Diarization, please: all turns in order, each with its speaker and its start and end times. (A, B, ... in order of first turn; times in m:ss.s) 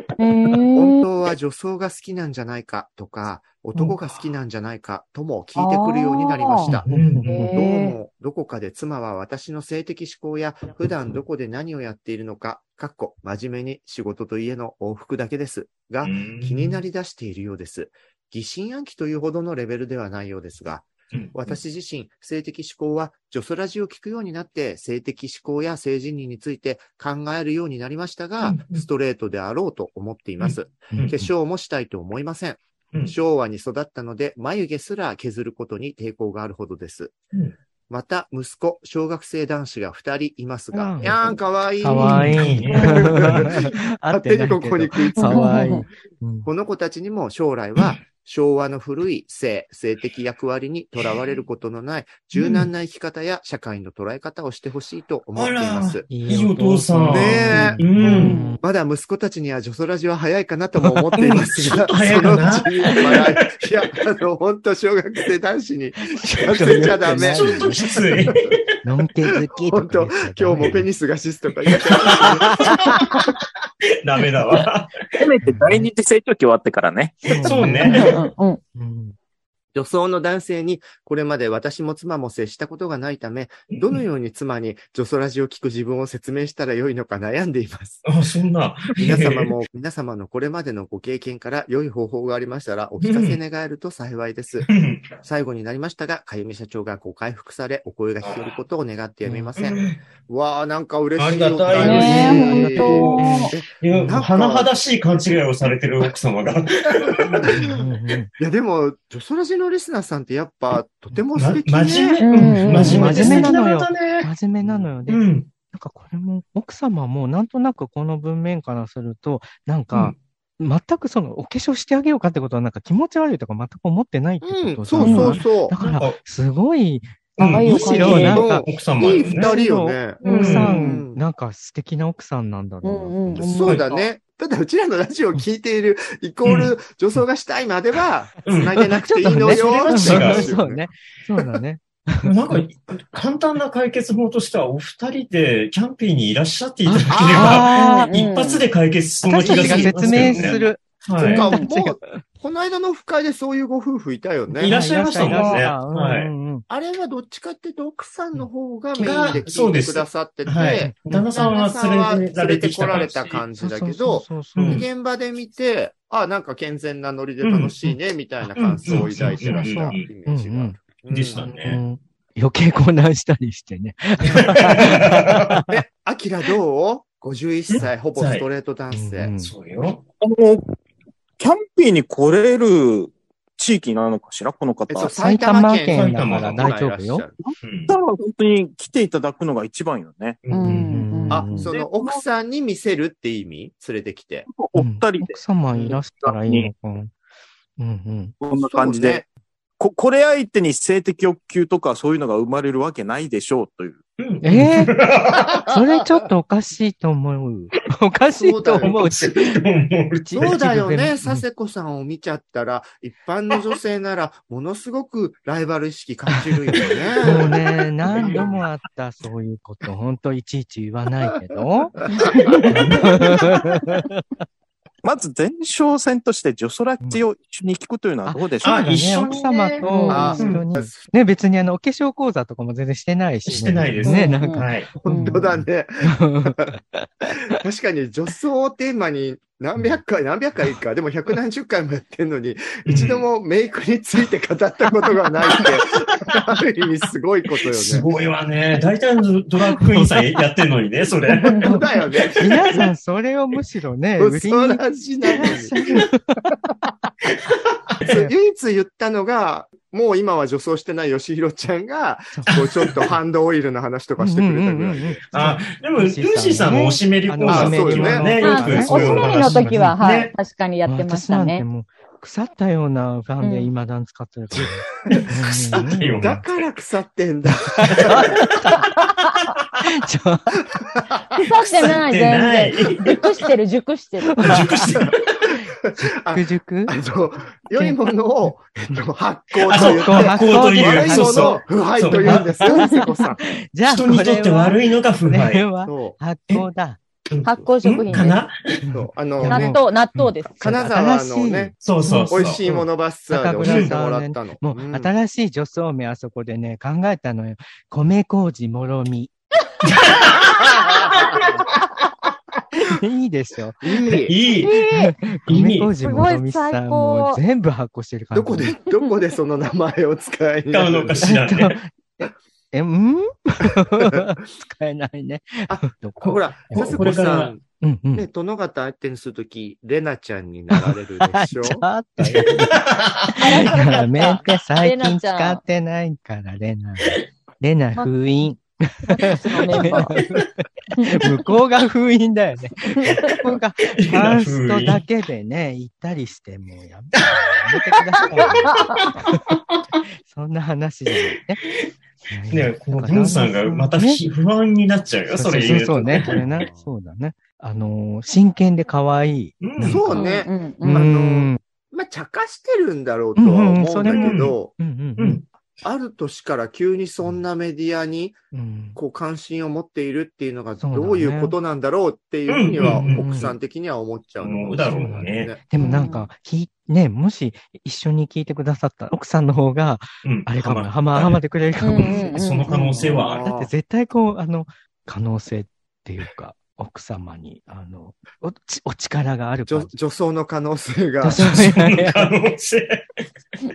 0:00.2-0:01.0 A
0:00.7-0:06.9 B
0:05.6-0:06.7 A
0:06.7-0:07.5 C
0:06.7-0:07.3 D
0:07.3-0:08.0 A
0:07.5-0:37.1 B
0:16.0-0:16.8 D
0:28.4-0:28.8 D
0:30.4-0:31.1 D
0:30.9-0:31.3 C
0:37.9-0:45.8 B
0:40.7-0:41.2 C
0:41.8-0:46.5 C
0:41.9-0:43.5 D
0:45.2-0:45.8 A
0:46.4-0:56.1 B
0:52.4-0:52.7 D
0:55.4-0:58.4 D
0:56.1-0:58.6 C
0:57.1-1:08.6 B
0:58.1-0:58.6 A
1:00.8-1:01.4 C
1:01.2-1:03.7 D
1:06.0-1:10.9 C
1:07.1-1:08.6 D
1:09.6-1:13.0 B
1:11.9-1:13.4 D
1:12.1-1:13.0 C
1:14.0-1:15.0 D
1:15.2-1:17.4 E
1:15.4-1:15.9 C
1:17.3-1:18.2 C
1:17.3-1:18.2 D
1:17.9-1:18.6 A
1:18.8-1:19.2 C
1:19.7-1:28.0 B
1:23.7-1:24.0 D
1:28.0-1:29.5 D
1:29.0-1:44.7 B
1:33.0-1:33.4 D
1:34.7-1:35.2 D
1:38.2-1:38.6 D
1:39.2-1:39.5 C
1:39.6-1:40.0 D
1:41.2-1:47.5 D
1:41.7-1:43.5 A
1:41.8-1:44.2 C
1:47.0-1:52.2 B
1:47.5-1:48.3 C
1:51.4-1:55.5 D
1:52.2-1:53.5 A
1:52.4-2:08.7 C
1:52.8-1:53.5 B
1:59.9-2:00.2 D
2:04.4-2:05.8 B
2:05.0-2:05.4 A
2:05.8-2:06.2 D
2:07.4-2:09.6 D
2:07.4-2:08.4 A
2:08.0-2:11.2 B
2:09.4-2:13.6 C
2:10.2-2:11.0 A
2:10.2-2:10.8 D
2:12.8-2:13.8 A
2:13.3-2:20.9 B
2:13.5-2:14.1 D
2:16.4-2:16.7 D
2:18.5-2:18.8 D
2:18.8-2:22.6 C
2:19.4-2:20.6 D
2:22.2-2:31.4 D
2:26.9-2:28.1 C
2:27.1-2:27.7 B
2:27.7-2:28.6 A
2:29.2-2:32.2 C
2:29.4-2:30.7 B
2:31.2-2:35.6 B
2:31.4-2:31.7 A
2:34.5-2:36.7 C
2:34.6-2:36.3 D
2:36.7-2:51.4 B
2:39.0-2:43.4 D
2:40.8-2:41.2 C
2:43.6-2:44.9 C
2:44.6-2:44.9 D
2:47.4-2:47.8 D
2:48.4-2:50.8 C
2:48.6-2:50.1 D
2:51.1-2:51.8 D
2:51.4-2:55.7 C
2:54.2-2:55.6 D
2:55.7-2:59.3 B
2:57.7-2:58.5 D
2:58.9-2:59.5 C
2:59.4-3:00.0 D
3:00.2-3:00.8 E
3:01.4-3:05.1 E
3:04.9-3:07.4 B
3:05.0-3:07.3 C
3:05.9-3:06.7 D
3:07.4-3:10.4 E
3:07.6-3:07.9 D
3:10.4-3:10.9 D
3:10.5-3:11.5 A
3:10.6-3:11.7 C
3:11.3-3:14.5 B
3:11.6-3:12.2 E
3:14.5-3:16.7 E
3:14.8-3:17.1 C
3:17.8-3:18.4 C
3:18.4-3:19.3 E
3:18.5-3:19.3 B
3:19.8-3:24.0 E
3:24.2-3:25.7 D
3:24.4-3:25.0 C
3:25.7-3:29.6 C
3:28.3-3:29.0 B
3:28.8-3:30.7 D
3:30.2-3:31.4 C
3:30.4-3:37.6 B
3:37.2-3:42.1 C
3:38.1-3:38.5 B
3:38.2-3:38.5 D
3:42.2-3:42.6 A
3:42.3-3:42.6 B
3:42.6-3:44.2 C
3:45.0-3:48.8 E
3:48.3-3:57.5 C
3:48.6-3:50.7 D
3:49.8-3:50.5 A
3:50.1-3:51.1 B
3:53.5-3:54.9 D
3:54.0-3:55.4 A
3:55.0-3:56.7 B
3:57.5-4:08.1 B
4:02.9-4:03.2 D
4:07.7-4:11.7 D
4:09.8-4:10.2 C
4:11.4-4:11.8 A
4:11.4-4:12.8 B
4:12.4-4:16.5 C
4:14.2-4:16.0 B
4:18.0-4:25.2 B
4:22.3-4:22.6 C
4:22.5-4:23.0 D
4:24.2-4:30.0 C
4:25.3-4:30.3 D
4:27.5-4:29.3 B
4:28.4-4:31.6 A
4:30.9-4:36.4 C
4:33.4-4:33.7 A
4:34.5-4:38.4 B
4:35.1-4:36.6 D
4:37.7-4:38.9 C
4:38.0-4:38.4 D
4:39.0-4:39.5 A
4:39.8-4:40.6 C
4:40.8-4:41.4 B
4:41.4-4:44.4 A
4:41.5-4:43.2 D
4:44.2-4:45.1 C
4:44.4-4:45.5 D
4:45.6-4:47.0 C
4:45.9-4:53.4 B
4:47.7-4:48.1 C
4:49.6-4:52.5 D
4:49.7-4:51.6 C
4:52.2-4:57.0 C
4:52.7-4:53.0 A
4:53.8-4:55.6 D
4:55.8-4:56.2 B
4:57.3-4:58.6 D
4:57.4-4:58.4 A
4:58.8-5:10.0 C
4:58.9-4:59.8 B
4:59.5-5:00.5 A
5:00.5-5:01.7 B
5:01.8-5:02.6 D
5:02.3-5:05.1 B
5:03.6-5:03.9 D
5:10.0-5:11.4 D
5:10.6-5:11.4 B
5:12.7-5:14.2 C
5:13.8-5:14.4 B
5:14.2-5:14.9 D
5:14.6-5:15.2 A
5:14.8-5:18.8 C
5:15.5-5:16.0 D
5:16.0-5:17.4 A
5:18.3-5:21.3 B
5:20.7-5:21.8 D
5:21.2-5:27.0 C
5:23.9-5:24.3 B
5:25.7-5:27.6 B
5:26.2-5:27.6 D
5:27.8-5:28.3 C
5:28.1-5:31.9 B
5:30.7-5:49.5 C
5:32.2-5:33.3 D
5:33.4-5:35.6 A
5:39.1-5:40.2 A
5:41.0-5:41.4 A
5:43.0-5:43.4 A
5:43.9-5:45.0 D
5:47.2-5:47.5 D
5:48.4-5:49.6 D
5:48.7-5:49.1 A
5:50.2-5:51.6 C
5:52.3-5:54.2 C
5:52.5-5:56.7 D
5:55.3-6:00.2 C
5:55.6-5:56.9 B
5:59.6-6:00.0 D
5:59.8-6:04.7 B
6:00.1-6:01.1 A
6:00.8-6:01.6 C
6:03.4-6:05.4 C
6:04.1-6:04.6 D
6:05.2-6:05.4 D
6:05.8-6:08.4 B
6:08.5-6:09.0 C
6:09.0-6:15.6 B
6:10.8-6:11.6 C
6:12.5-6:13.5 D
6:12.8-6:13.5 C
6:14.4-6:15.5 D
6:14.9-6:29.9 C
6:15.8-6:16.3 A
6:20.2-6:21.4 D
6:21.8-6:22.7 A
6:21.9-6:23.5 D
6:23.0-6:23.7 B
6:29.7-6:31.6 B
6:31.2-6:32.3 C
6:31.4-6:33.0 D